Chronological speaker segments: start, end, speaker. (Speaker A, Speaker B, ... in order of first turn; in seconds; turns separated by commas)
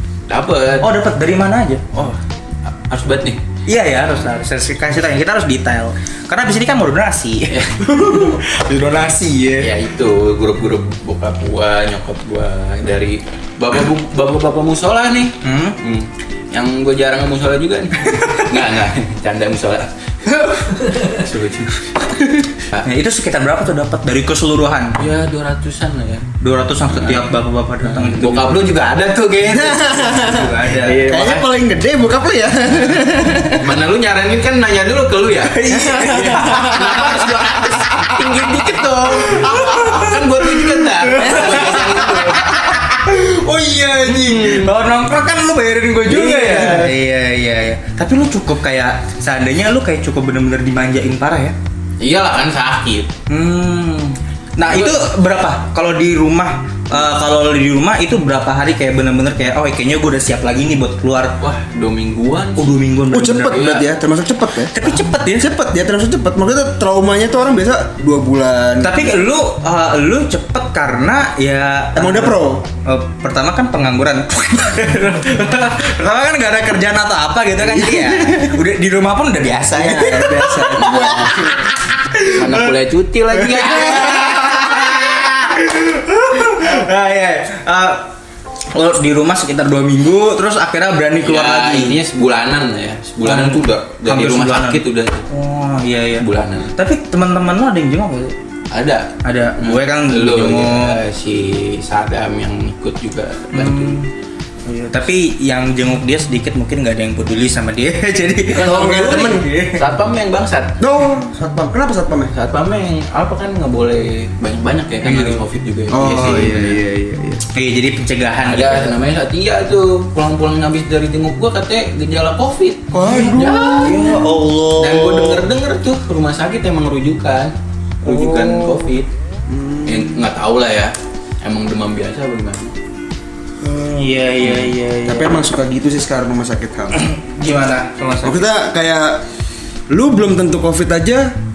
Speaker A: 0.3-0.9, Speaker B: 0.8-1.9, Speaker A: 1.9-3.4, Speaker B: 3.7-9.7, Speaker A: 7.5-8.4, Speaker A: 9.6-22.8, Speaker B: 15.4-15.8, Speaker B: 18.1-18.5, Speaker B: 22.8-25.0, Speaker A: 25.0-26.3, Speaker B: 26.4-28.8, Speaker A: 26.9-27.2, Speaker A: 27.8-31.5, Speaker C: 29.5-33.6, Speaker B: 29.9-31.1, Speaker A: 33.6-42.6, Speaker B: 35.4-38.0, Speaker C: 35.7-36.6, Speaker B: 39.3-51.5, Speaker C: 41.2-44.7, Speaker C: 46.0-47.0, Speaker A: 52.0-53.1, Speaker B: 53.3-61.4, Speaker A: 54.6-55.0, Speaker A: 61.4-62.8, Speaker B: 62.6-63.6, Speaker C: 63.1-69.0, Speaker A: 63.5-63.8, Speaker B: 64.7-65.5, Speaker B: 68.8-82.7, Speaker C: 72.0-72.6, Speaker C: 77.7-78.6, Speaker C: 79.8-81.7, Speaker A: 82.3-84.5, Speaker B: 83.4-88.0, Speaker B: 88.7-92.0, Speaker A: 91.2-95.3, Speaker B: 93.2-98.3, Speaker A: 96.2-96.7, Speaker A: 98.7-104.0, Speaker B: 99.2-101.0, Speaker B: 103.5-104.1, Speaker B: 104.7-109.9, Speaker A: 108.5-110.8, Speaker C: 108.5-109.5, Speaker C: 110.8-112.3, Speaker A: 112.3-116.8, Speaker B: 115.0-115.4, Speaker C: 115.9-117.4, Speaker B: 117.5-119.0, Speaker A: 118.5-124.2, Speaker C: 122.9-124.2, Speaker B: 123.0-125.5, Speaker A: 124.8-129.1, Speaker B: 128.0-128.9, Speaker C: 129.5-130.2, Speaker A: 129.9-132.7, Speaker B: 133.6-135.4, Speaker C: 134.5-137.0, Speaker B: 136.9-138.5, Speaker C: 138.2-139.2, Speaker C: 139.9-141.3